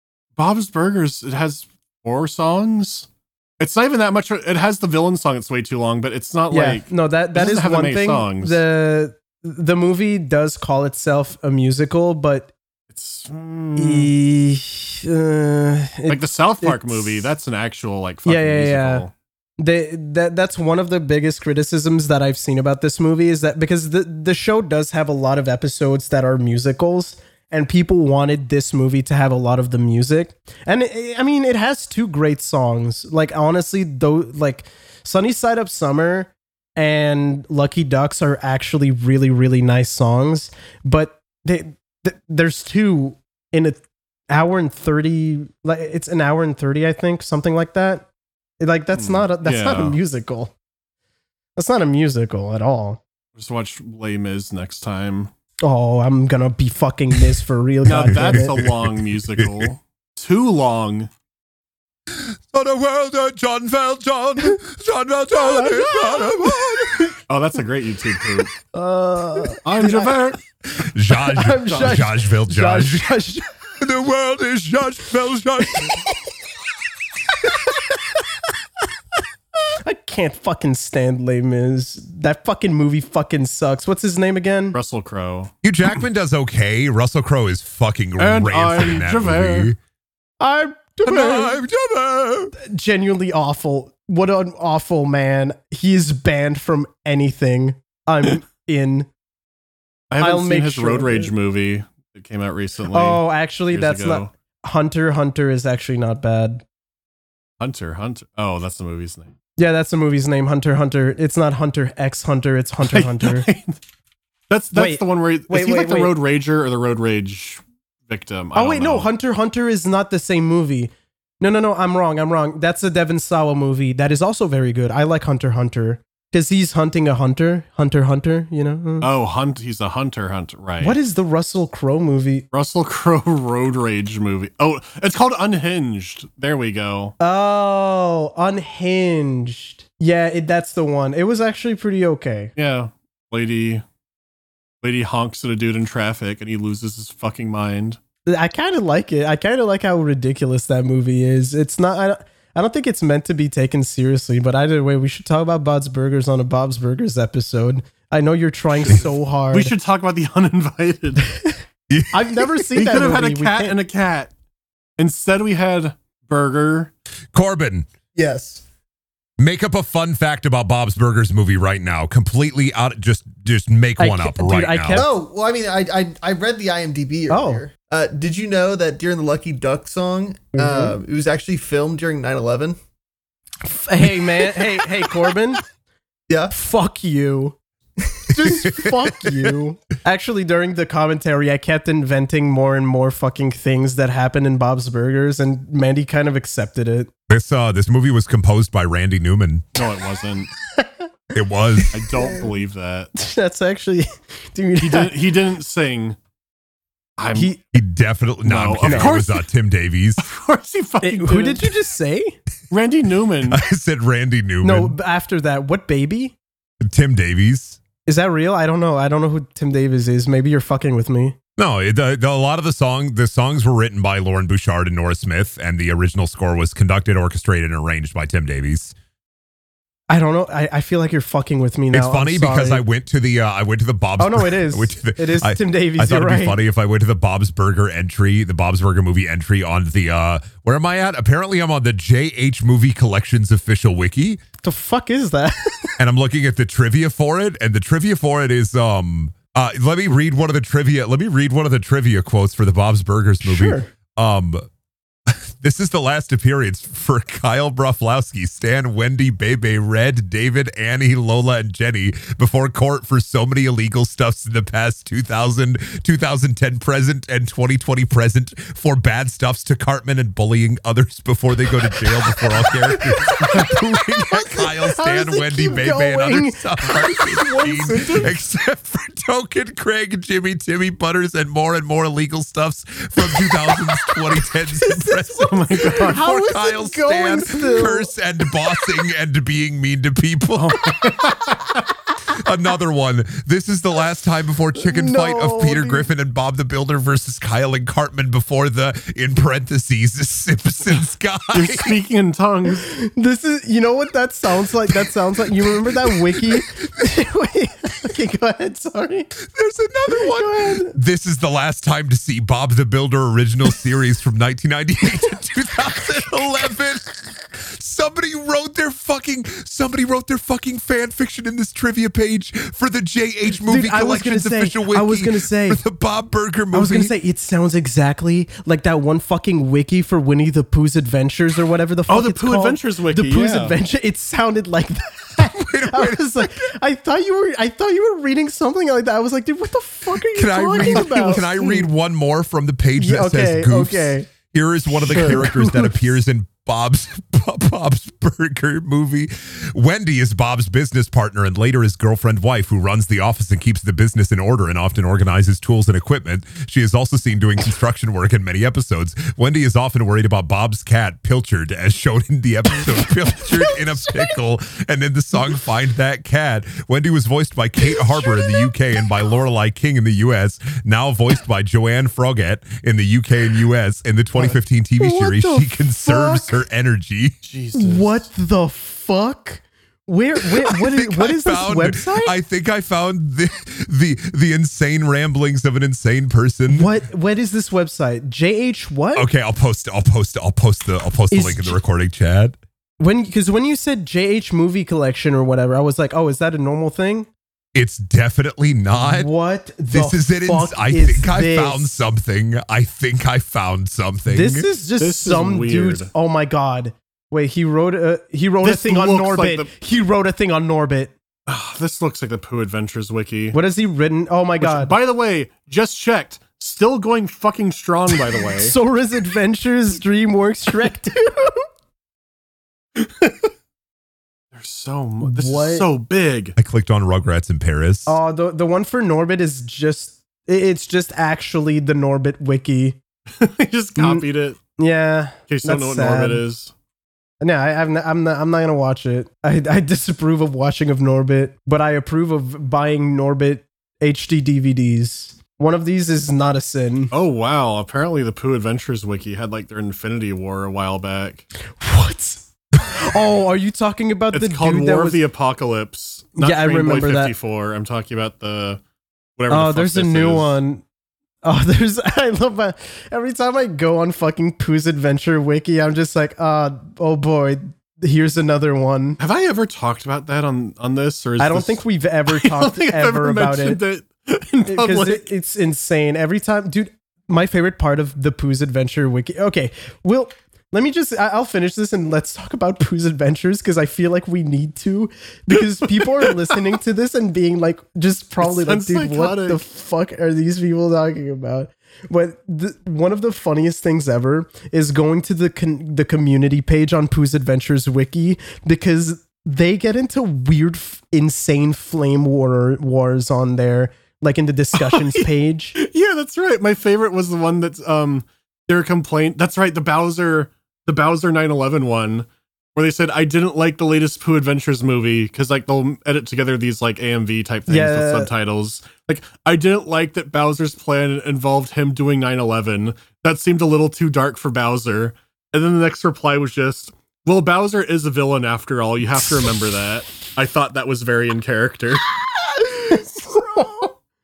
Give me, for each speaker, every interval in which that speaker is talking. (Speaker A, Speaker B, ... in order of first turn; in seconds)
Speaker A: 0.4-3.1, 3.6-8.6, 12.9-14.1, 16.1-19.1, 49.0-50.0, 53.4-55.3, 57.9-61.1, 67.3-68.5, 69.6-70.4, 84.7-85.5, 88.2-89.7, 100.1-104.3, 107.6-109.3, 112.8-113.8, 114.5-119.1, 129.0-131.0, 132.5-137.2, 142.6-143.8, 144.8-148.0, 159.5-161.3, 162.8-164.3, 165.0-166.9, 199.8-200.5, 201.9-203.1, 204.8-206.2, 207.2-207.5, 208.4-209.4, 210.2-211.7, 212.7-213.6, 277.9-278.3, 285.5-286.2, 290.6-291.9, 301.5-302.9, 332.1-333.8, 340.8-341.6, 345.1-345.4, 377.4-378.3, 405.0-406.1, 408.6-409.7, 411.5-413.6, 414.6-418.8, 423.0-423.5, 424.5-426.6, 433.4-434.6, 435.5-436.7, 447.1-451.5, 454.3-458.8, 459.4-460.6, 469.2-475.3, 485.8-486.6, 488.4-489.6, 504.8-505.3, 505.8-532.1, 533.2-533.7
Speaker B: 6.5-12.5, 13.8-17.3, 18.3-19.1, 19.6-48.1, 48.6-50.5, 51.6-53.0, 55.6-58.5, 65.4-67.1, 68.7-70.2, 71.2-73.5, 75.8-76.1, 79.8-84.8, 90.4-91.6, 92.6-99.1, 100.2-101.3, 102.9-106.6, 109.6-113.5, 114.7-116.2, 118.5-129.1, 130.8-132.5, 137.2-142.5, 148.3-159.7, 162.1-163.8, 174.0-175.2, 177.3-177.6, 180.5-181.0, 183.6-185.6, 186.5-187.6, 188.3-197.1, 203.2-205.2, 207.3-207.6, 208.9-209.1, 211.0-212.4, 214.6-216.3, 218.1-221.4, 230.1-232.8, 234.2-236.6, 244.6-246.0, 253.4-253.9, 273.2-278.3, 284.8-288.1, 294.8-296.1, 302.8-309.3, 310.1-310.9, 323.6-325.8, 326.7-341.9, 343.0-344.3, 345.1-346.1, 374.4-376.6, 377.7-382.4, 386.7-389.3, 391.3-391.8, 393.0-397.3, 398.9-401.9, 404.3-411.1, 413.5-414.9, 418.6-421.6, 425.2-425.9, 428.1-433.0, 434.0-434.2, 434.8-436.4, 437.4-447.1, 451.8-455.2, 456.4-457.3, 459.5-460.8, 461.4-469.2, 471.4-473.8, 474.7-505.8, 517.7-518.3, 532.6-533.9
Speaker C: 58.2-59.7, 62.1-67.1, 70.8-73.2, 73.8-76.0, 85.6-89.8, 91.1-92.5, 161.9-162.6, 167.3-167.9, 169.4-175.1, 188.4-189.5, 197.3-199.8, 201.3-202.0, 207.7-210.2, 213.5-214.9, 216.8-217.8, 221.6-228.9, 231.9-244.4, 246.0-254.7, 255.3-290.9, 292.3-302.0, 306.1-306.9, 309.4-327.1, 335.5-336.5, 340.1-377.4, 380.7-386.9, 389.1-392.6, 397.7-399.3, 399.9-404.7, 426.6-428.2
Speaker D: 168.2-168.6, 174.9-182.8